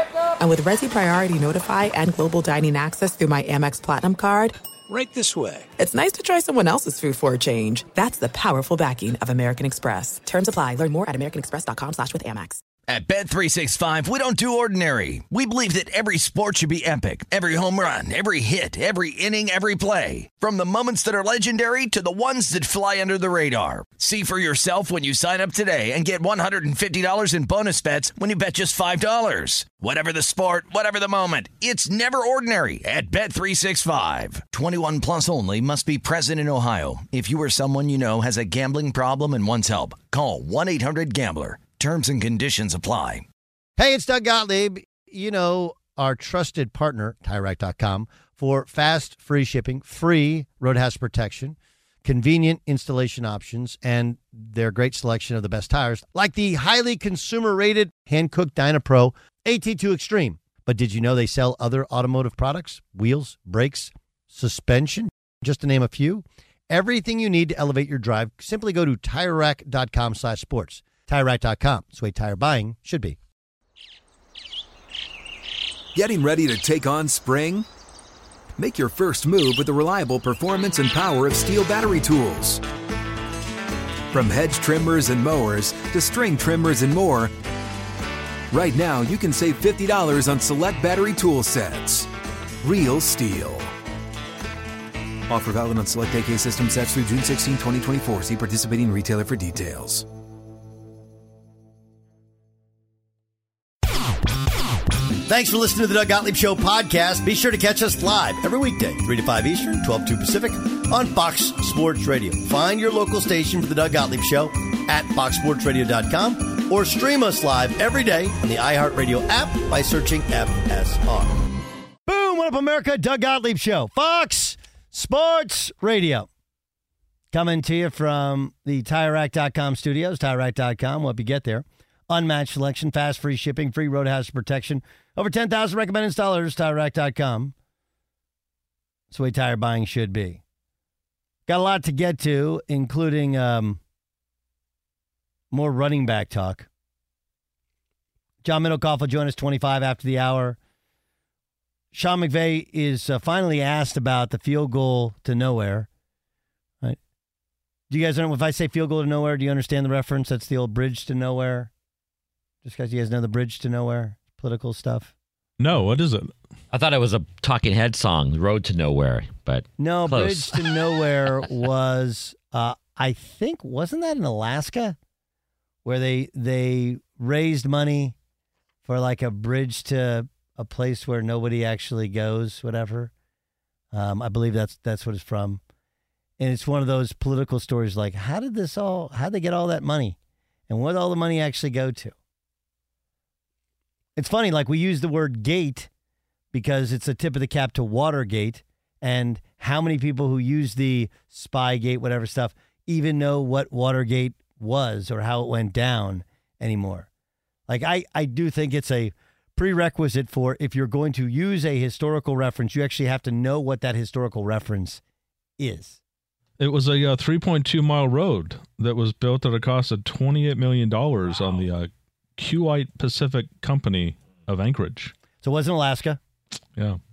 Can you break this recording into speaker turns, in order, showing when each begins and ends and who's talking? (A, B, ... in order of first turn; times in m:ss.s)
0:00.4-0:04.6 A
0:04.9-0:05.7 B
0:05.8-0:12.6 A
0:12.9-0:43.2 C
0:43.8-1:13.2 D
1:15.9-1:17.7 B
1:18.6-1:22.6 B
1:24.1-1:27.3 B
1:28.5-1:32.1 B
1:32.6-1:33.7 B
1:35.3-1:40.0 B
1:45.2-2:01.4 D
2:02.0-2:06.3 D
2:07.3-2:17.5 D
2:19.1-2:20.4 D
2:21.5-2:23.8 D
2:25.5-2:26.7 D
2:28.4-2:30.6 D
2:31.9-2:35.9 D
2:37.9-2:41.7 D
2:42.6-2:45.1 D
2:45.6-2:46.3 E
2:46.7-2:50.8 F
2:49.8-2:55.0 D
2:55.8-2:58.2 D
2:58.8-3:03.1 D
3:03.9-3:05.6 D
3:06.4-3:10.2 D
3:10.7-3:12.2 D
3:14.2-3:15.9 D
3:16.5-3:27.1 D
3:27.7-3:35.0 D
3:35.6-3:36.0 D
3:36.6-3:45.1 E
3:45.4-3:46.2 D